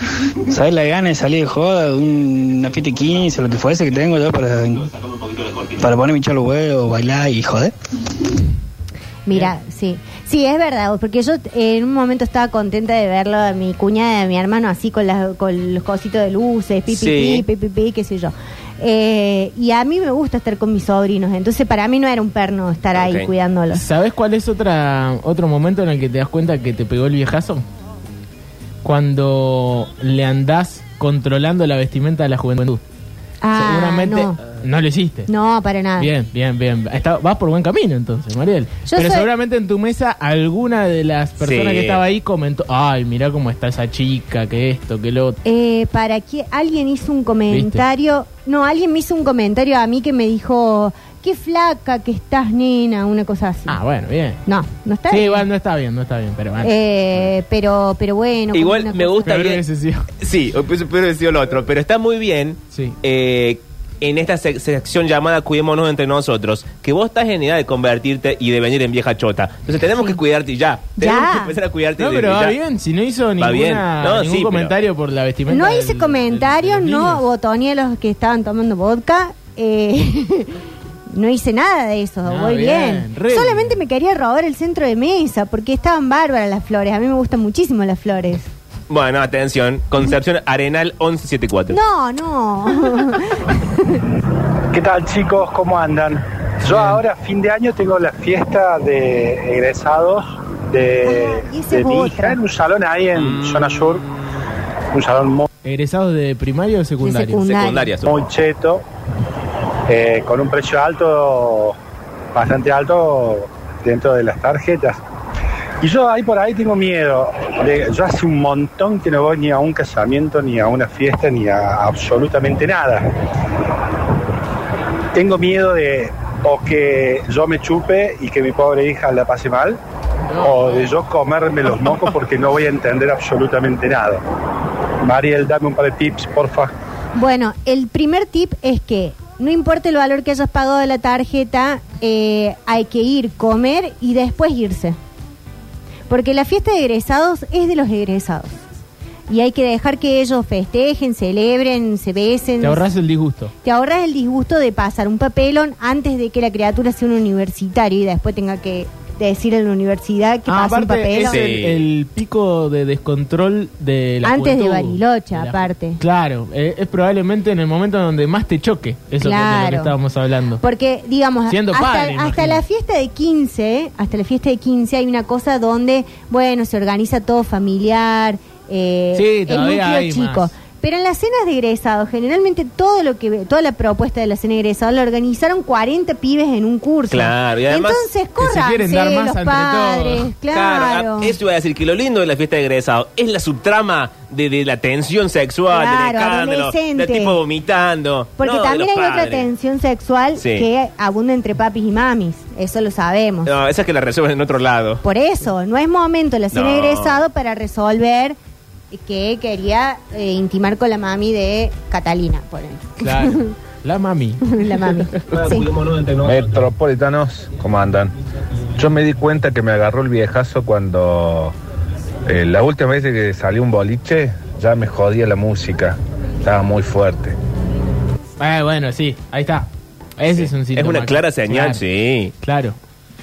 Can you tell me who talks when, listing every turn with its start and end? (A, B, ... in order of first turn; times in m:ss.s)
0:00.5-0:04.9 A
0:05.8-0:07.7 A
0:09.2-0:23.8 B
0:16.9-0:17.4 C
0:23.0-0:23.3 C
0:23.7-0:27.6 D
0:28.8-0:32.8 D
0:33.4-0:34.4 B
0:33.5-0:35.3 D
0:35.3-0:36.1 B
0:36.0-0:45.4 D
0:38.9-0:39.3 B
0:41.4-0:42.0 C
0:45.4-0:53.8 B
0:47.5-0:47.8 D
0:53.7-0:54.4 D
0:54.4-0:55.4 B
0:55.1-0:56.7 D
0:56.6-0:59.3 B
0:58.5-0:59.6 C
0:59.2-1:00.1 D
1:00.2-1:12.6 C
1:11.0-1:11.5 B
1:12.0-1:17.2 D
1:13.4-1:14.7 C
1:15.5-1:20.6 B
1:21.1-1:28.5 B
1:22.2-1:23.8 D
1:28.9-1:31.8 C
1:31.7-1:34.0 B
1:34.7-1:44.0 E
1:36.6-1:37.0 D
1:41.0-1:42.4 B
1:43.1-1:44.4 C
1:44.9-1:45.5 E
1:45.6-1:47.4 D
1:47.0-1:47.9 B
1:47.4-1:48.3 C
1:48.0-1:48.8 E
1:49.9-1:51.8 E
1:52.3-1:55.0 E
1:55.8-2:03.1 E
2:05.1-2:09.8 E
2:10.2-2:10.9 D
2:10.4-2:14.2 E
2:15.0-2:16.7 E
2:17.1-2:25.0 B
2:26.1-2:28.6 B
2:29.3-2:32.8 B
2:32.6-2:33.5 D
2:33.6-2:41.4 B
2:40.5-2:50.6 D
2:41.2-2:41.9 C
2:44.2-2:46.0 B
2:49.2-2:49.9 B
2:50.6-3:11.3 B
2:51.5-2:52.6 D
2:59.1-3:00.5 D
3:07.1-3:08.1 C
3:08.4-3:10.3 D
3:10.5-3:19.5 C
3:15.7-3:17.4 B
3:18.4-3:23.5 B
3:20.4-3:20.7 C
3:23.4-3:25.0 C
3:25.0-3:28.4 B
3:26.5-3:27.2 C
3:28.9-3:33.5 B
3:33.0-3:34.6 D
3:34.5-3:35.7 B
3:35.3-3:36.6 C
3:36.2-3:38.1 F
3:38.8-3:41.5 F
3:42.3-3:47.4 F
3:48.4-3:51.8 D
3:50.3-3:52.3 C
3:52.4-3:52.8 D